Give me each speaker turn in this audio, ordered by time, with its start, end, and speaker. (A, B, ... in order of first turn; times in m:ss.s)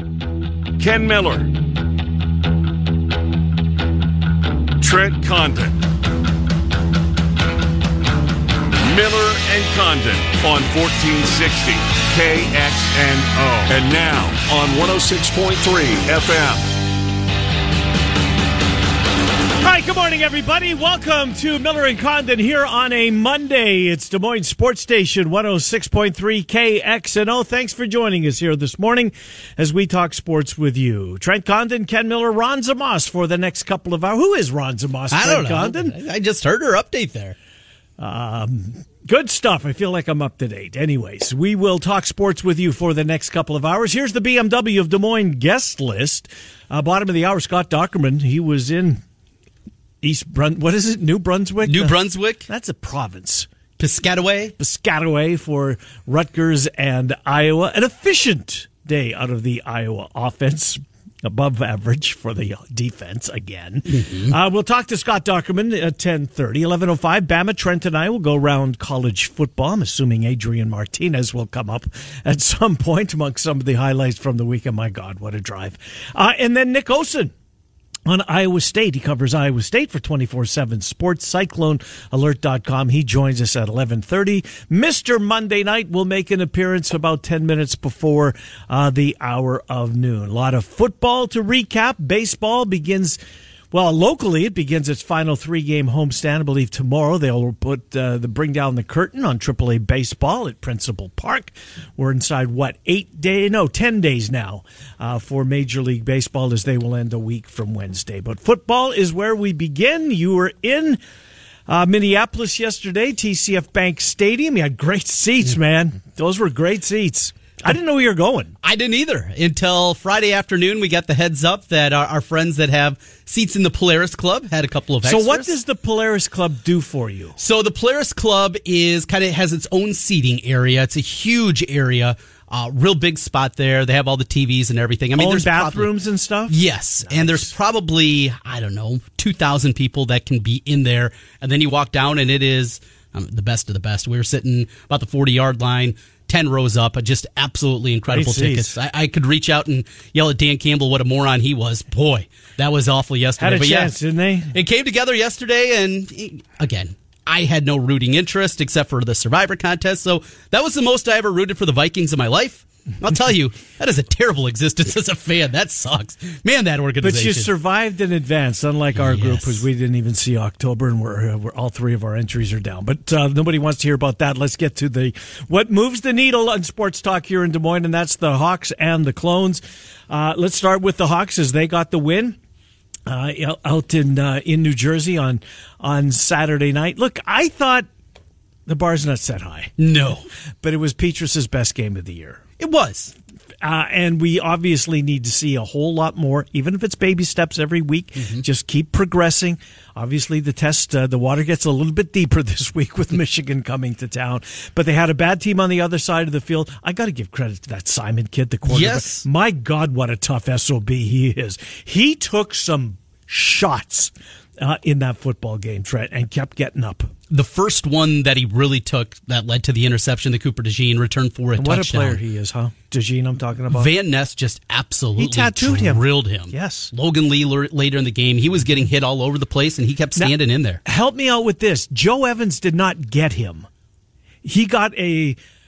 0:00.8-0:01.5 A
0:04.8-0:05.8 A
0:08.8-0:16.7 A
0:19.6-0:36.0 B
0:35.1-0:37.4 C
0:38.0-0:49.0 B
0:50.0-0:53.5 B
0:51.6-0:52.5 C
0:53.8-0:54.6 C
0:54.6-1:17.3 B
1:03.9-1:04.3 C
1:18.1-1:33.2 B
1:33.7-1:51.0 B
1:51.7-1:58.6 B
1:58.6-2:05.6 C
2:05.0-2:07.4 B
2:07.4-2:15.9 C
2:15.2-2:17.5 B
2:16.5-2:34.0 C
2:28.1-2:28.8 B
2:33.4-2:34.6 B
2:34.5-2:47.5 C
2:47.0-3:02.4 B
2:49.0-2:49.6 C
3:03.1-3:07.9 B
3:08.7-3:09.7 B
3:09.8-3:10.3 C
3:10.6-3:12.4 B
3:12.6-3:13.1 C
3:13.6-3:37.1 B
3:28.7-3:29.2 C
3:37.3-3:42.2 C
3:41.6-3:43.9 B
3:43.7-3:50.8 C
3:45.2-3:46.9 B
3:50.2-3:53.7 B
3:54.4-3:55.4 B